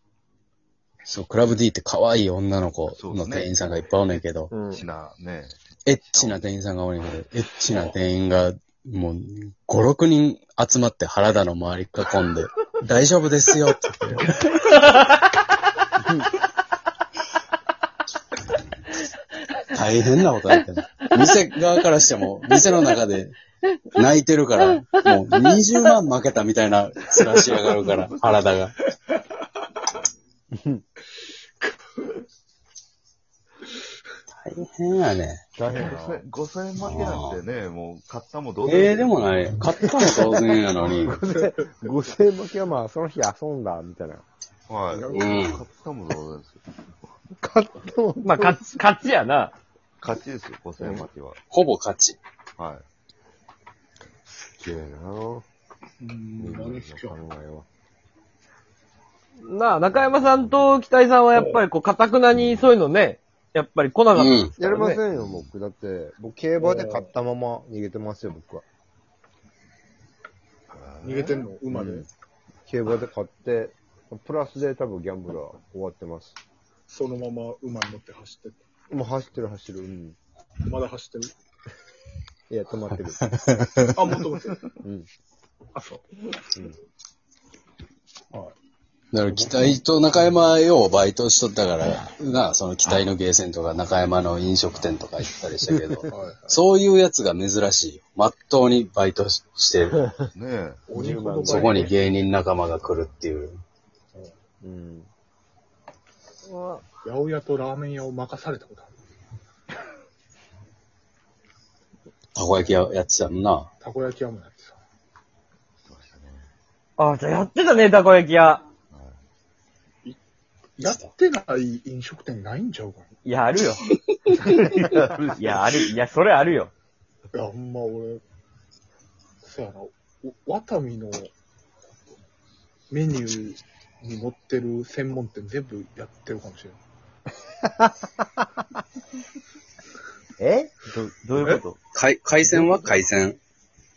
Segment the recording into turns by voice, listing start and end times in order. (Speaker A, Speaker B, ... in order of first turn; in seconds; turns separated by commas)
Speaker A: 1.1-4.6, Speaker B: 2.9-3.6, Speaker C: 4.5-4.8, Speaker B: 4.7-6.4, Speaker A: 5.8-14.3, Speaker C: 14.4-15.2, Speaker A: 19.7-23.4, Speaker A: 23.9-28.8, Speaker C: 25.0-25.6, Speaker B: 27.6-28.0, Speaker D: 30.5-30.8, Speaker A: 34.4-35.5, Speaker D: 35.6-36.3, Speaker B: 35.7-39.3, Speaker A: 36.8-37.4, Speaker A: 38.6-41.1, Speaker D: 39.9-44.2, Speaker E: 40.9-41.9, Speaker B: 44.7-46.6, Speaker D: 44.9-45.4, Speaker A: 45.1-45.6, Speaker D: 47.4-48.7, Speaker C: 48.2-49.5, Speaker B: 50.0-51.4, Speaker A: 51.5-52.2, Speaker B: 52.6-52.8, Speaker D: 54.6-55.4, Speaker E: 56.0-57.2, Speaker D: 56.4-57.6, Speaker B: 56.5-56.8, Speaker C: 59.4-65.0, Speaker A: 64.1-64.5, Speaker D: 64.6-68.6, Speaker B: 65.1-65.5, Speaker E: 66.6-67.1, Speaker B: 70.7-71.5, Speaker E: 71.0-72.1, Speaker D: 71.7-72.0, Speaker D: 72.7-76.4, Speaker E: 76.9-78.6, Speaker D: 78.9-80.2, Speaker E: 80.6-81.3, Speaker D: 82.5-83.2, Speaker A: 83.3-84.0, Speaker E: 84.0-84.6, Speaker D: 84.8-85.1, Speaker E: 85.7-86.0, Speaker A: 89.1-100.0, Speaker E: 89.3-89.7, Speaker E: 96.1-96.6, Speaker B: 100.3-100.8, Speaker E: 100.9-101.9, Speaker D: 100.9-101.9, Speaker A: 101.4-103.6, Speaker D: 104.6-105.1, Speaker C: 106.5-106.8, Speaker E: 107.0-108.9, Speaker A: 112.3-113.7, Speaker E: 112.6-112.9, Speaker E: 113.8-114.8, Speaker B: 115.8-116.5, Speaker C: 117.0-118.6, Speaker B: 118.9-119.2, Speaker E: 120.8-123.1, Speaker C: 123.2-123.9, Speaker C: 124.4-124.7, Speaker B: 124.5-125.9, Speaker C: 125.4-126.7, Speaker E: 127.3-128.2, Speaker E: 129.4-131.3, Speaker E: 132.9-136.8, Speaker D: 137.6-138.2, Speaker D: 140.4-140.7, Speaker B: 140.9-141.8, Speaker A: 141.9-143.4